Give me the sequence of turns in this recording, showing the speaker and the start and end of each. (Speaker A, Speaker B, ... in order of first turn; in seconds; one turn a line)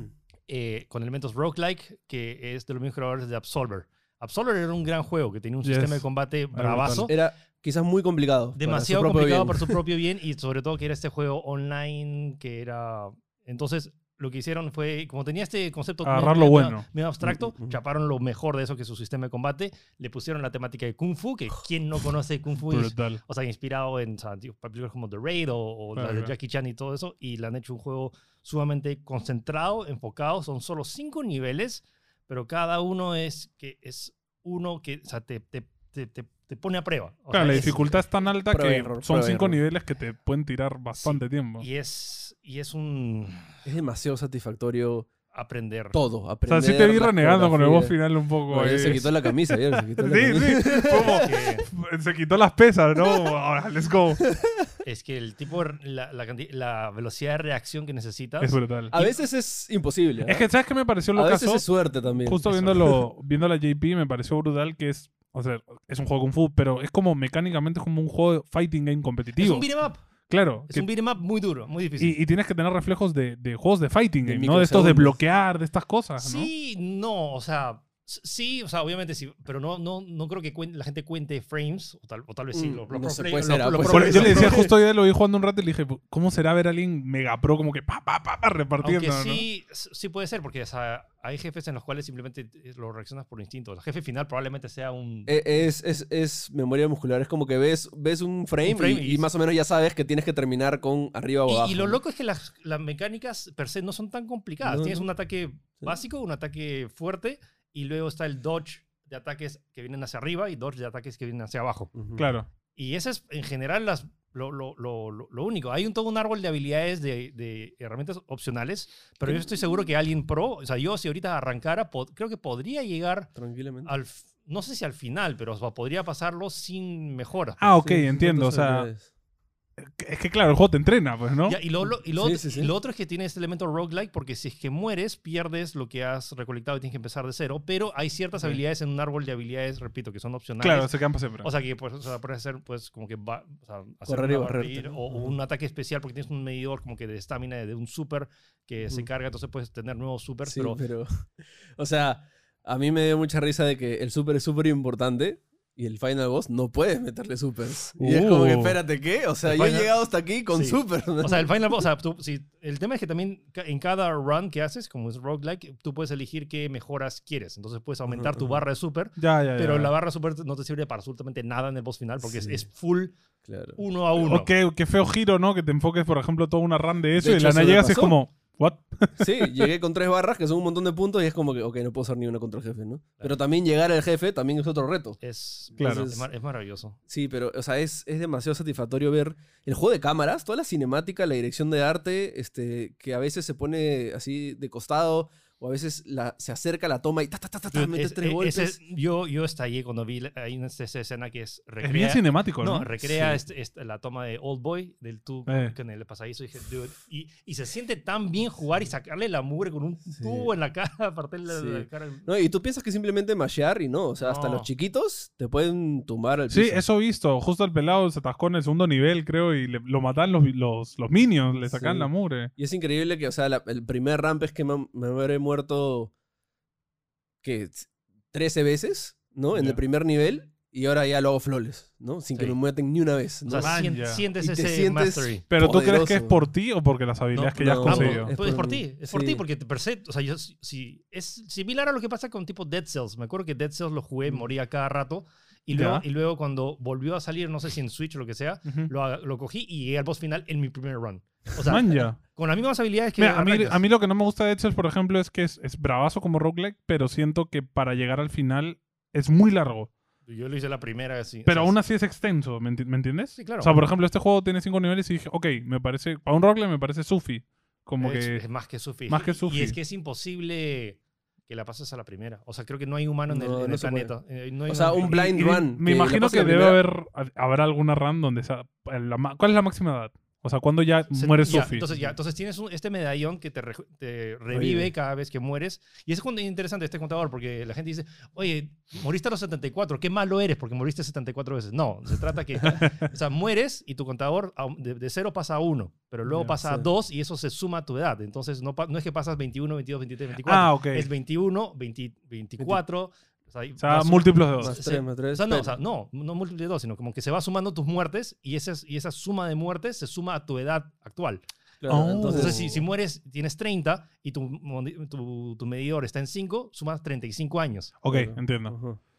Speaker A: 0.5-7.2
Speaker B: 5.6-7.1
Speaker C: 7.1-9.8
Speaker A: 8.5-38.0
Speaker B: 16.0-16.9
Speaker C: 17.2-17.8
Speaker B: 22.7-23.2
Speaker B: 25.9-26.3
Speaker B: 37.3-41.7
Speaker C: 37.5-37.8
Speaker C: 38.5-39.6
Speaker A: 41.0-43.5
Speaker C: 43.6-45.1
Speaker A: 45.3-46.0
Speaker C: 45.9-48.0
Speaker B: 46.5-54.3
Speaker C: 48.5-51.2
Speaker A: 51.1-51.7
Speaker A: 54.8-59.2
Speaker B: 58.4-58.9
Speaker C: 58.9-60.5
Speaker B: 60.2-61.7
Speaker C: 61.1-62.9
Speaker B: 62.2-69.7
Speaker A: 69.4-70.0
Speaker B: 70.3-70.8
Speaker A: 70.7-72.2
Speaker B: 72.0-76.5
Speaker C: 74.2-75.2
Speaker A: 76.2-84.6
Speaker C: 82.5-84.8
Speaker B: 83.9-89.5
Speaker A: 88.8-95.4
Speaker C: 95.3-102.0
Speaker A: 98.6-99.3
Speaker A: 101.5-111.9
Speaker C: 104.6-105.1
Speaker C: 111.9-112.3
Speaker B: 112.2-112.5
Speaker A: 112.8-123.3
Speaker C: 119.2-119.6
Speaker C: 123.3-123.9
Speaker A: 123.8-127.7
Speaker B: 127.6-128.9
Speaker C: 127.7-129.1
Speaker B: 129.8-131.6
Speaker A: 131.5-150.8
Speaker C: 132.2-132.7
Speaker B: 140.6-141.5
Speaker C: 144.1-145.3
Speaker C: 150.5-161.5
Speaker B: 158.0-158.8
Speaker A: 159.4-159.9
Speaker A: 160.5-173.1
Speaker C: 168.1-168.6
Speaker B: 169.2-169.9
Speaker C: 172.2-172.7
Speaker C: 173.5-173.8
Speaker A: 173.8-174.5
Speaker B: 174.2-179.7
Speaker C: 177.2-178.2
Speaker C: 179.2-185.2
Speaker A: 185.2-187.0
Speaker C: 185.8-186.3
Speaker B: 185.8-186.1
Speaker C: 187.1-198.8
Speaker A: 197.7-212.2
Speaker B: 201.8-202.9
Speaker C: 203.0-203.4
Speaker B: 205.5-205.7
Speaker C: 210.1-210.5
Speaker C: 211.5-216.8
Speaker A: 214.2-214.7
Speaker B: 216.5-222.5
Speaker C: 221.6-226.1
Speaker C: 227.4-233.8
Speaker B: 229.5-229.8
Speaker A: 233.4-235.4
Speaker B: 233.6-234.2
Speaker C: 234.4-236.4
Speaker B: 235.5-238.3
Speaker A: 237.3-253.8
Speaker C: 237.6-239.4
Speaker B: 245.7-246.0
Speaker B: 248.7-248.9
Speaker B: 251.6-252.2
Speaker B: 253.2-259.9
Speaker A: 260.2-261.8
Speaker B: 261.5-268.4
Speaker A: 263.4-263.8
Speaker A: 268.0-275.3
Speaker B: 269.1-269.8
Speaker C: 273.3-274.1
Speaker C: 274.7-276.8
Speaker B: 275.0-281.9
Speaker A: 281.1-311.4
Speaker C: 284.5-284.9
Speaker B: 292.6-293.1
Speaker C: 296.3-296.9
Speaker B: 300.5-301.1
Speaker B: 303.8-304.8
Speaker C: 304.6-305.7
Speaker C: 311.8-312.8
Speaker B: 311.9-312.6
Speaker A: 312.2-318.0
Speaker B: 318.0-318.8
Speaker C: 318.1-319.0